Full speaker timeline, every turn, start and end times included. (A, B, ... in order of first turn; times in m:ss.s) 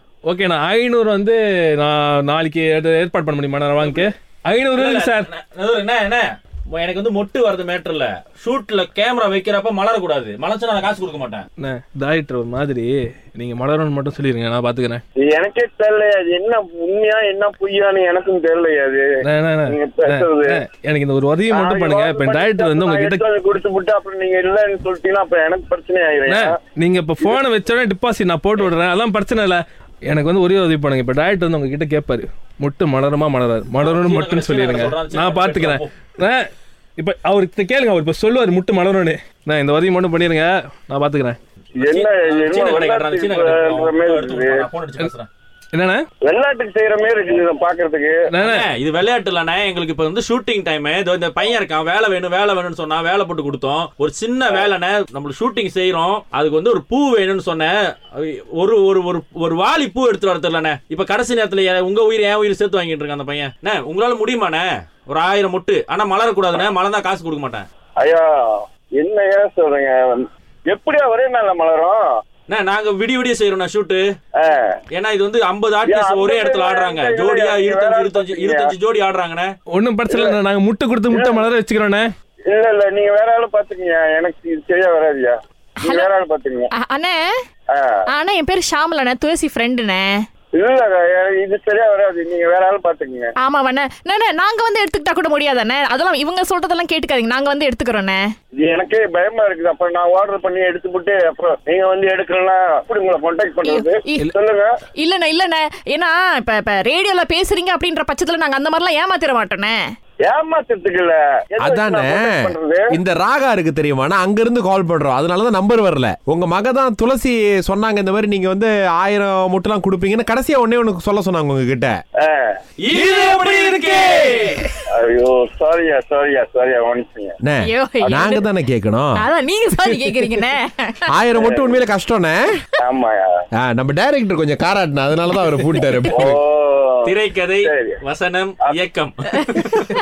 0:00.3-0:05.3 A
0:04.8-0:11.4 B
0:11.6-0:15.0 A
0:15.2-0:19.0 C
0:19.2-0:23.2 A
0:19.7-0:20.6 C
0:21.5-0:26.5 C
0:26.3-0:41.4 A
0:33.8-0:35.9 B
0:41.8-0:45.3 B
0:41.8-0:44.7 C
0:45.7-0:46.0 A
0:46.2-0:48.2 C
0:48.3-0:48.7 A
0:48.4-1:07.7 B
1:08.0-1:12.0 C
1:12.5-1:14.1 B
1:14.4-1:14.8 C
1:14.9-1:19.5 B
1:15.8-1:18.8 C
1:19.7-1:22.1 A
1:20.1-1:20.4 C
1:21.1-1:21.5 C
1:22.5-1:26.7 C
1:25.8-1:26.1 D
1:26.7-1:27.2 D
1:27.7-1:28.0 C
1:28.1-1:30.2 D
1:30.5-1:33.3 C
1:33.4-1:38.2 D
1:38.5-1:44.7 C
1:43.6-1:44.3 D
1:45.0-1:49.8 D
1:50.2-1:52.8 C
1:51.6-1:52.3 E
1:52.9-2:02.0 E
2:02.2-2:02.6 C
2:02.8-2:04.6 B
2:03.2-2:03.6 A
2:04.9-2:07.4 C
2:07.4-2:09.3 E
2:07.6-2:08.5 D
2:09.2-2:11.0 D
2:11.1-2:12.6 E
2:11.3-2:11.8 C
2:12.8-2:13.2 C
2:13.6-2:16.4 E
2:16.1-2:17.1 C
2:17.0-2:19.8 B
2:17.6-2:18.0 C